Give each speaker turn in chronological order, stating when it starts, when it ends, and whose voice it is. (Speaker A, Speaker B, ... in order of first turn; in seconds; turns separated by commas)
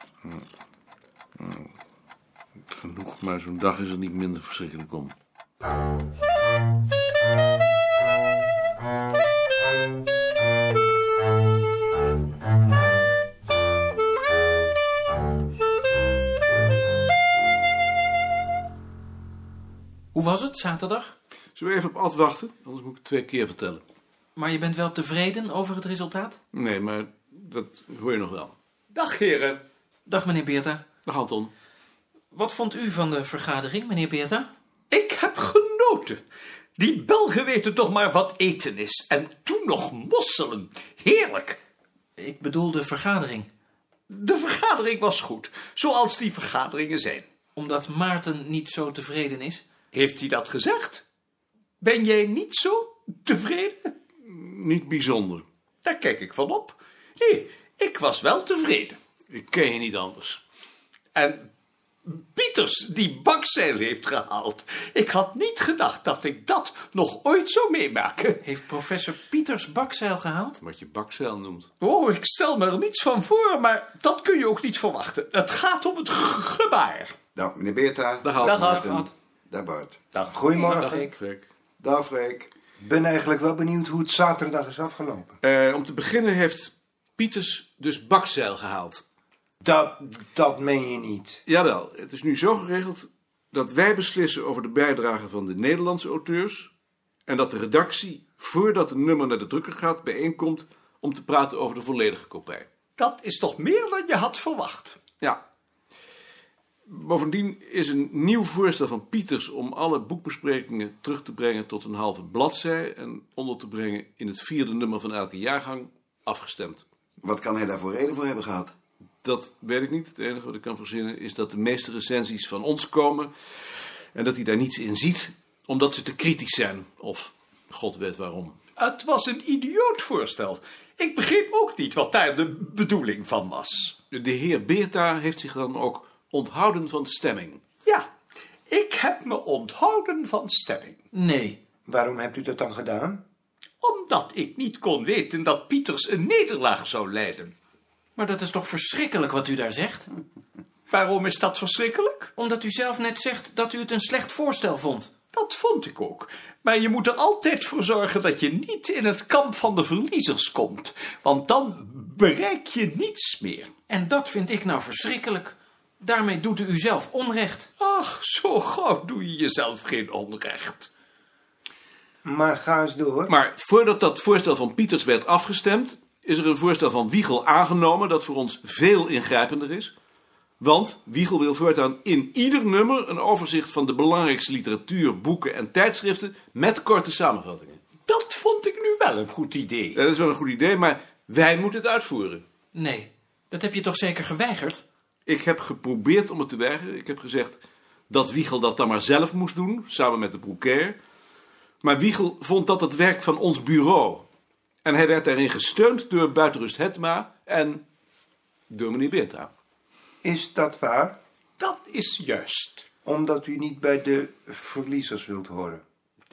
Speaker A: 1.4-1.7, Speaker A: 2.7-5.1, Speaker B: 20.1-21.1, Speaker A: 21.6-23.8, Speaker B: 24.3-26.4, Speaker A: 26.5-28.5, Speaker C: 28.9-29.6, Speaker B: 30.1-30.8, Speaker A: 31.1-31.5, Speaker B: 32.3-34.5, Speaker C: 34.9-36.2, Speaker C: 36.8-41.6, Speaker B: 42.2-43.5, Speaker C: 44.1-47.2, Speaker B: 47.5-49.6, Speaker C: 49.9-51.0, Speaker C: 51.8-53.9, Speaker A: 54.2-55.4, Speaker C: 55.8-59.0, Speaker A: 59.3-60.4, Speaker C: 61.1-61.5, Speaker C: 62.0-68.4, Speaker B: 68.4-70.6, Speaker A: 70.6-71.7, Speaker C: 71.8-77.2, Speaker D: 77.3-80.0, Speaker A: 78.2-78.9, Speaker C: 78.4-79.1, Speaker C: 80.1-80.5, Speaker E: 80.3-81.0, Speaker B: 80.5-81.2, Speaker A: 81.0-81.5, Speaker D: 81.8-82.5, Speaker E: 82.8-85.3, Speaker A: 85.4-89.0, Speaker E: 89.6-91.4, Speaker A: 91.5-96.7, Speaker A: 97.3-102.7, Speaker C: 103.0-105.0, Speaker A: 106.9-116.8, Speaker D: 117.2-118.7, Speaker A: 119.2-123.3, Speaker A: 124.1-128.6, Speaker C: 128.8-133.9, Speaker A: 134.1-137.6, Speaker C: 138.7-141.0, Speaker B: 141.1-141.6, Speaker E: 141.8-143.2, Speaker C: 143.8-147.5, Speaker B: 148.2-150.1, Speaker C: 150.9-152.3, Speaker B: 152.4-155.1, Speaker C: 155.3-163.7, Speaker B: 163.9-167.7, Speaker C: 167.8-170.9, Speaker E: 172.2-173.3, Speaker A: 173.3-179.9, Speaker A: 180.6-187.8, Speaker C: 188.1-190.0, Speaker A: 189.9-192.4, Speaker B: 192.7-194.8, Speaker A: 195.3-201.0, Speaker A: 201.8-204.3, Speaker A: 204.8-207.8, Speaker A: 208.7-209.5, Speaker E: 210.2-211.2, Speaker C: 211.6-212.8, Speaker E: 213.0-215.8